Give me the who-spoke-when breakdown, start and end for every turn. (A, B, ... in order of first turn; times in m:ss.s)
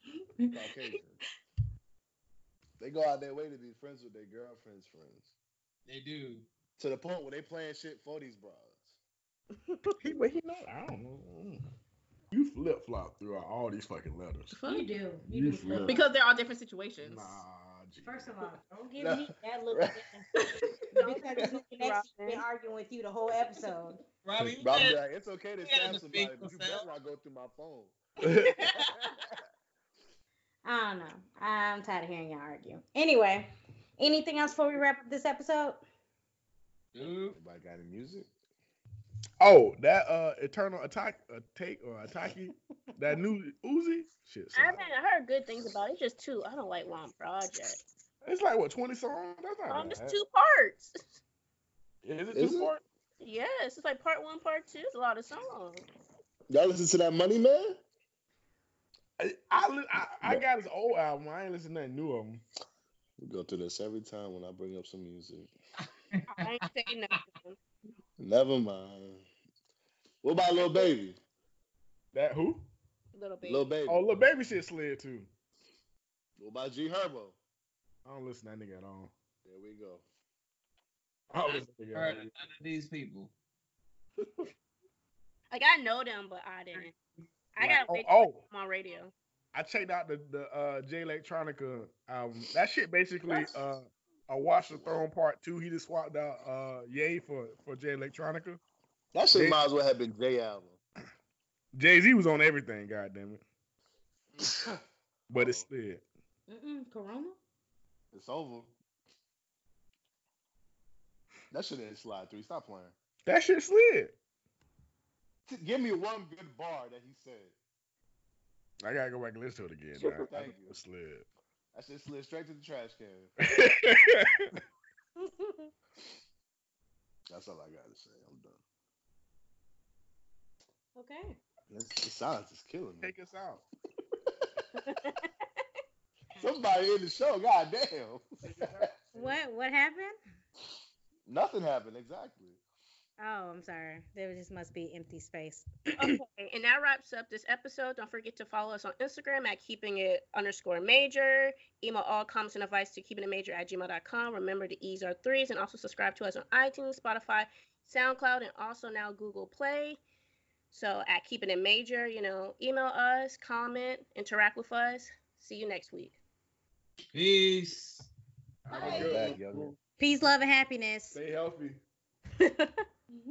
0:00.2-0:00.7 A
0:00.5-0:01.2 B
0:02.8-0:05.3 B
0:05.9-0:06.4 C
0:06.8-0:09.0 B
0:10.0-0:11.6 D
0:12.3-0:14.5 D
0:14.5-0:14.9 E
0:14.7-0:16.0 F
0:15.2-0:16.0 D
0:15.8-0:17.4 A
0:17.0-0:18.3 D
0:18.0-0:20.2 F
0:19.0-0:20.0 B
0:20.4-0:20.7 A
0:20.9-0:24.0 F
0:20.9-0:22.4 E
0:24.2-0:25.0 C
0:24.6-0:28.0 B
0:25.6-0:26.8 C
0:28.2-0:28.5 D
0:28.4-0:28.8 E
0:28.8-0:29.2 B
0:30.6-0:35.8 F
0:36.9-0:37.4 C
0:37.3-0:38.3 B
0:39.4-0:44.8 D
0:44.5-0:47.8 E
0:48.2-0:50.2 D
0:49.7-0:51.0 E
0:52.0-0:52.8 D
0:52.3-0:52.7 B
0:53.2-0:55.8 E
0:56.5-0:57.8 B
0:59.2-1:02.4 D
1:03.2-1:05.5 B
1:06.1-1:06.5 C
1:06.3-1:07.6 E
1:08.2-1:09.2 B
1:10.2-1:11.2 B
1:10.6-1:10.9 E
1:12.1-1:12.7 D
1:13.1-1:13.7 E
1:13.4-1:14.0 B
1:13.9-1:15.3 D
1:16.4-1:17.4 B
1:18.0-1:19.1 D
1:19.4-1:20.0 B
1:21.3-1:22.3 D
1:21.9-1:23.3 C
1:25.5-1:26.9 E
1:27.5-1:29.1 E
1:27.6-1:28.4 D
1:29.5-1:38.6 D
1:33.3-1:33.6 E
1:34.6-1:35.0 B
1:39.1-1:40.8 B
1:39.3-1:39.6 D
1:41.7-1:43.4 D
1:44.4-1:44.8 B
1:45.3-1:45.6 B
1:45.3-1:46.0 D
1:46.5-1:47.4 F
1:48.1-1:48.7 B
1:51.5-1:52.9 B
1:53.2-1:54.2 D
1:55.5-1:57.5 B
1:58.8-2:01.3 D
2:00.2-2:00.8 B
2:01.7-2:03.3 B
2:03.4-2:04.5 D
2:05.2-2:05.7 F
2:07.3-2:08.6 B
2:10.9-2:11.4 F
2:11.7-2:13.1 B
2:13.0-2:13.6 D
2:14.9-2:15.2 E
2:16.4-2:18.9 B
2:18.4-2:19.4 D
2:19.1-2:20.2 F
2:21.2-2:22.6 B
2:23.2-2:26.1 F
2:25.9-2:40.0 E
2:40.7-2:46.2 E
2:47.1-2:48.1 C
2:48.6-2:49.8 D
2:48.7-2:49.3 A
2:48.8-2:49.7 B
2:50.0-2:51.2 F
2:51.1-2:51.8 D
2:52.4-2:52.8 E